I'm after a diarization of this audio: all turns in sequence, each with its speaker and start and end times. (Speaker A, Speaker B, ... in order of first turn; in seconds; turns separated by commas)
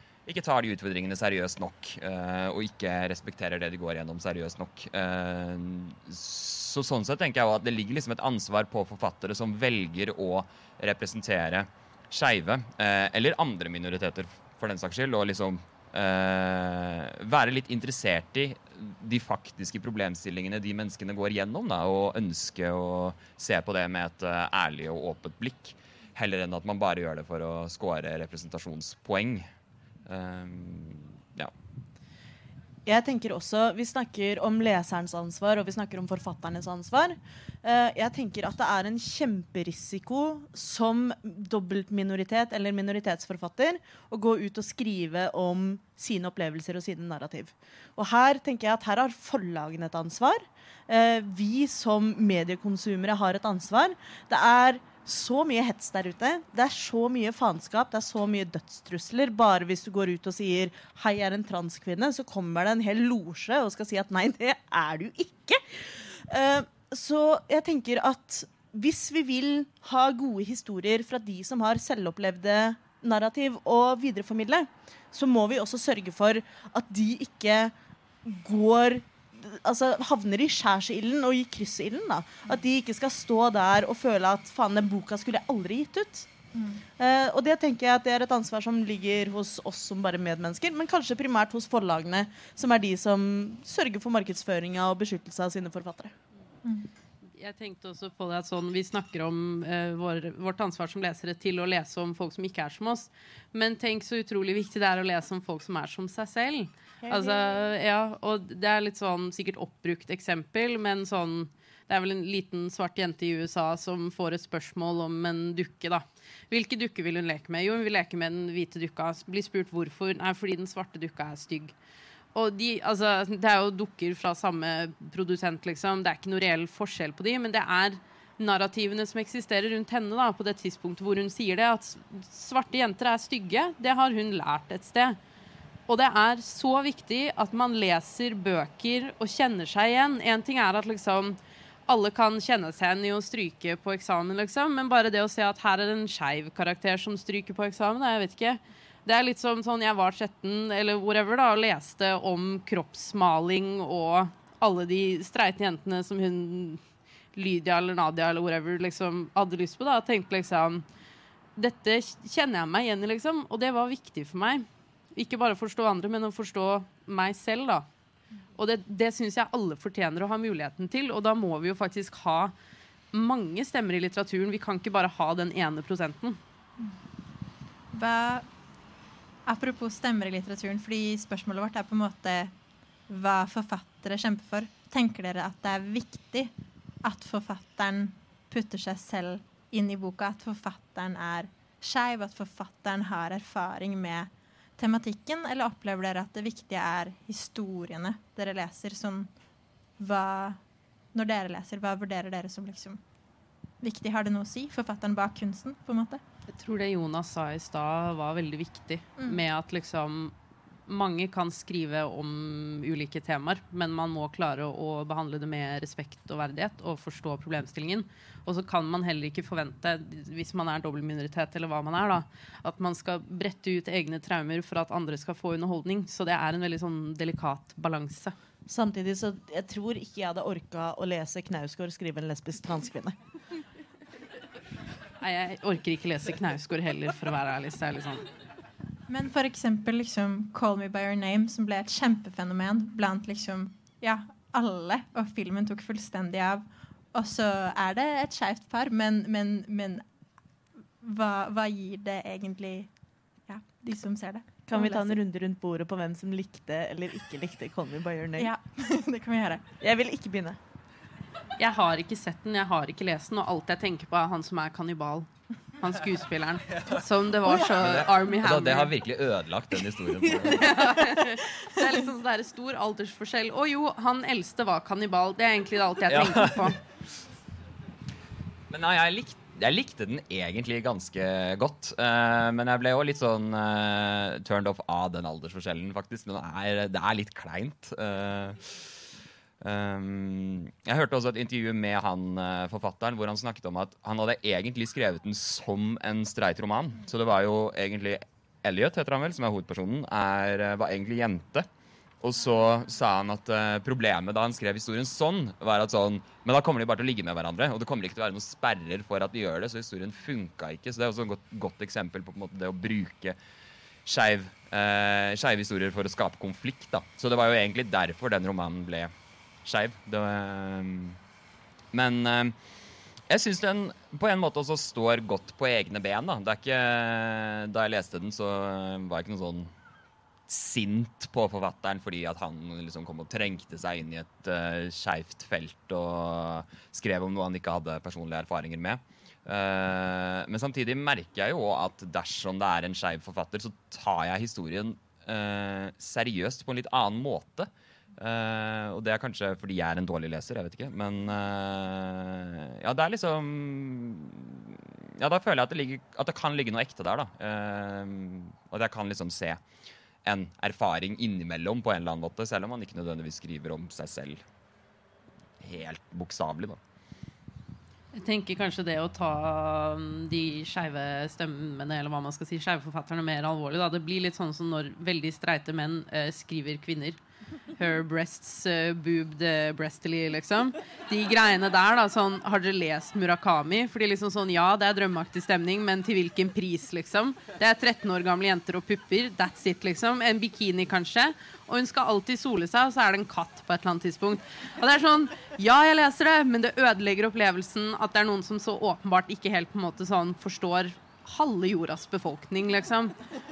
Speaker A: 0.3-29.5, Speaker A: 30.1-31.5, Speaker B: 32.9-77.7, Speaker B: 78.2-86.3, Speaker C: 86.5-86.8, Speaker B: 87.0-96.1, Speaker D: 97.3-121.7, Speaker B: 107.0-107.6, Speaker D: 122.3-135.2, Speaker D: 135.9-156.8, Speaker D: 157.3-160.8, Speaker D: 161.6-167.9, Speaker D: 168.6-172.5, Speaker D: 173.1-176.4, Speaker C: 177.9-178.4, Speaker C: 179.5-182.5, Speaker C: 183.1-186.5, Speaker C: 187.0-199.3, Speaker C: 200.0-200.6, Speaker C: 201.1-203.0, Speaker C: 203.8-206.2, Speaker D: 206.5-210.3, Speaker D: 210.9-228.4, Speaker B: 228.7-233.2, Speaker D: 235.2-238.2, Speaker C: 239.1-250.1, Speaker C: 251.0-252.9, Speaker C: 253.5-255.2, Speaker B: 254.7-258.5, Speaker C: 258.4-259.6, Speaker B: 259.8-260.6, Speaker D: 261.6-268.9, Speaker A: 267.7-270.9, Speaker D: 270.2-276.8, Speaker A: 276.1-276.8, Speaker A: 278.7-288.9, Speaker A: 289.6-301.7, Speaker A: 302.2-313.4, Speaker A: 314.1-319.1, Speaker A: 319.6-321.2, Speaker A: 321.9-322.6, Speaker A: 323.3-329.7, Speaker A: 330.5-359.6, Speaker A: 360.2-364.4, Speaker A: 365.6-366.8, Speaker D: 368.1-377.2, Speaker D: 377.8-403.1